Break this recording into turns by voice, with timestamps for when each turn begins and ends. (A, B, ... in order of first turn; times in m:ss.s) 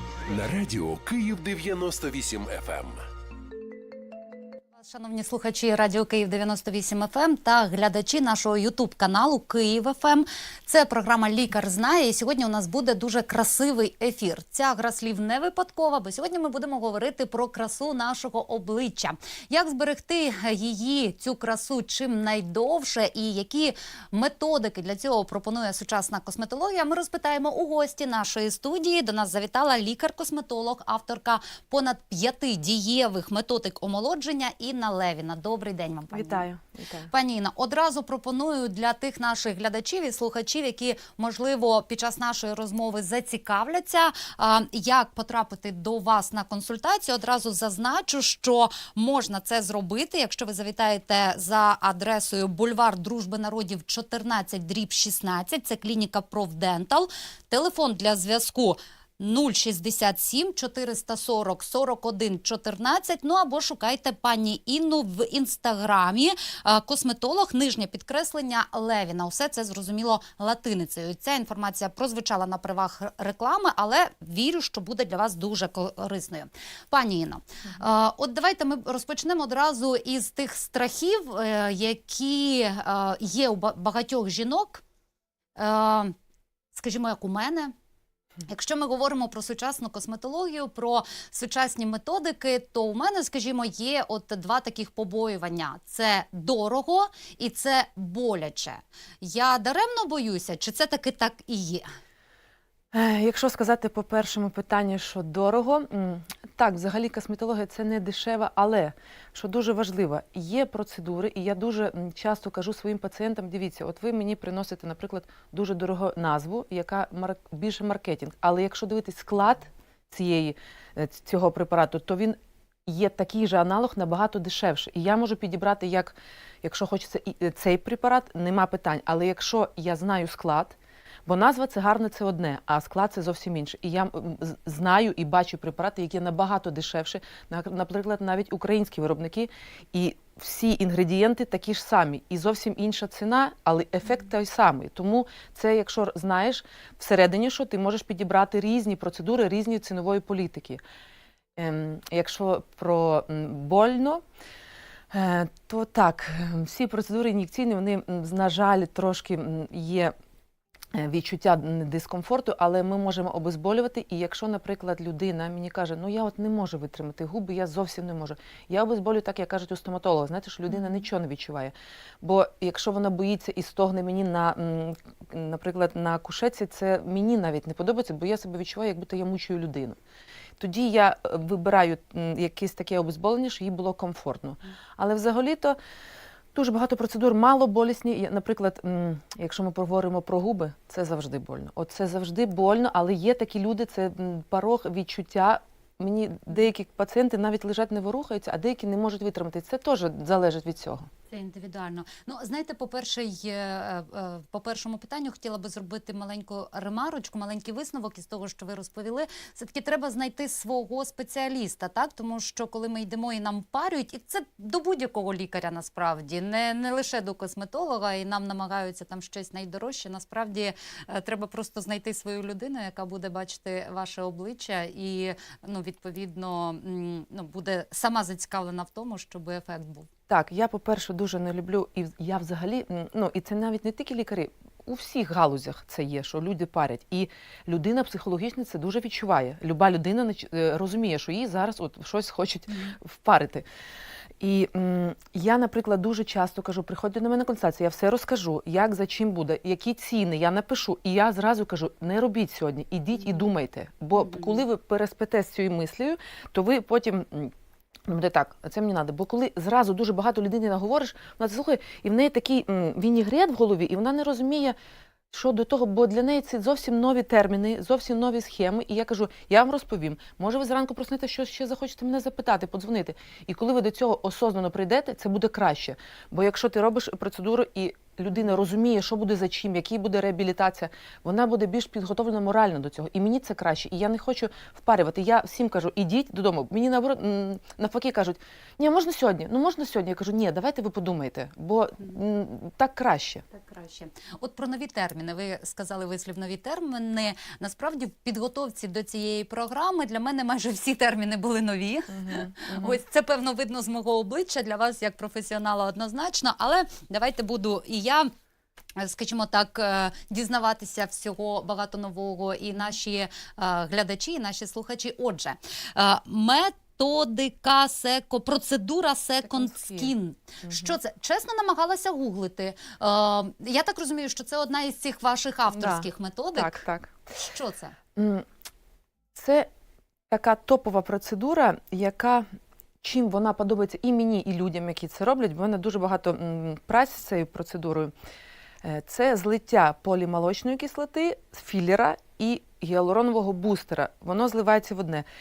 0:00.2-0:03.0 A
0:04.8-0:36.4 B
0:36.1-0:37.1 C
0:37.1-1:24.8 B
1:25.6-1:26.1 B
1:26.7-1:27.7 B
1:28.5-1:41.8 B
1:42.9-2:30.8 C
2:31.6-2:34.2 C
2:35.1-2:40.1 C
2:40.9-3:00.0 C
3:00.6-3:05.8 C
3:06.5-3:21.1 C
3:21.3-3:50.1 B
3:50.3-4:03.6 C
4:04.4-4:17.5 C
4:14.2-4:14.6 B
4:18.1-4:24.8 C
4:25.3-4:53.4 C
4:53.5-5:08.3 B
5:02.1-5:03.0 C
5:09.0-5:26.8 B
5:19.5-5:20.1 C
5:20.6-5:21.0 C
5:25.7-5:27.1 C
5:27.4-5:28.0 B
5:28.2-5:28.4 C
5:29.3-5:29.7 C
5:30.3-5:32.4 C
5:33.0-5:38.1 C
5:38.8-5:45.2 C